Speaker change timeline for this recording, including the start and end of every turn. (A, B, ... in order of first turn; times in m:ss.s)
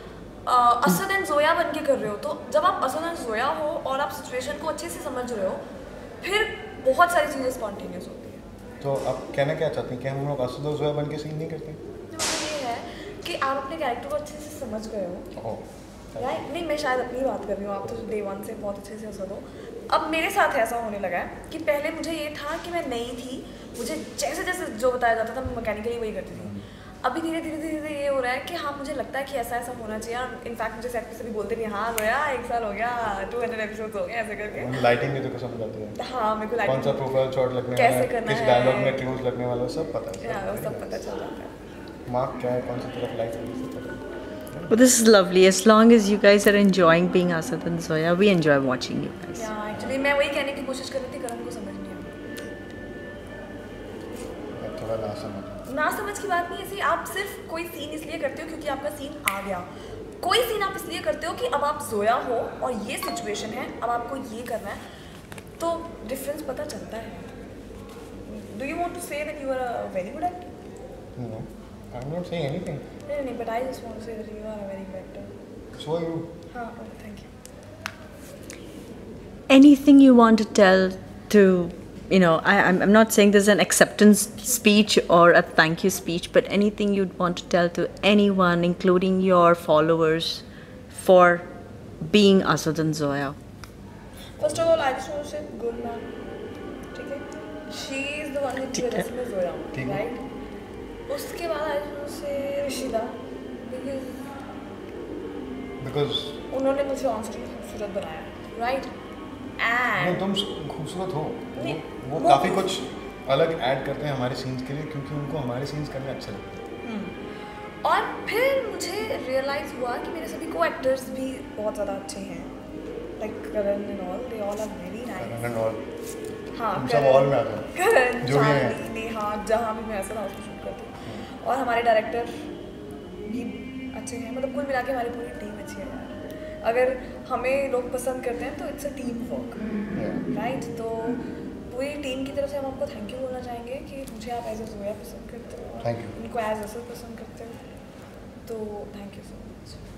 0:00.4-0:05.6 A
0:06.2-0:08.4 A
0:08.8-0:11.8 B
0:12.1-0:15.3 A
0:15.3-0:16.4 B
0:16.2-0:34.8 A
0:26.3-0:26.7 B
0:34.5-0:36.0 B
0:36.0-0:37.1 A
0:36.6-0:41.0 B
0:37.7-0:39.0 A
0:40.2-0:41.6 A
0:42.1-0:44.7 B
0:44.7-0:49.5 C
0:49.3-0:52.1 A
0:54.6-0:55.6 B
0:55.6-0:59.7 A
1:00.2-1:04.8 A
1:05.6-1:07.3 A
1:08.3-1:10.5 A
1:11.2-1:12.8 B
1:13.1-1:15.4 A
1:15.7-1:16.3 B
1:16.5-1:17.3 A
1:19.5-1:31.5 C
1:32.0-1:33.4 C
1:34.4-1:36.1 A
1:34.4-1:34.7 B
1:36.9-1:40.2 A
1:39.7-1:40.0 B
1:41.1-1:44.4 A
1:45.8-1:46.4 B
1:46.5-1:48.9 A
1:49.6-1:50.2 A
1:50.0-1:56.6 B
1:51.5-1:52.8 A
1:56.8-1:57.2 A
1:57.8-2:02.5 A
2:03.2-2:05.4 A
2:05.1-2:05.8 B
2:06.5-2:12.4 A
2:06.7-2:08.8 B
2:13.2-2:19.6 A
2:19.9-2:20.2 B
2:20.3-2:27.6 A
2:25.8-2:26.1 B
2:28.4-2:29.8 A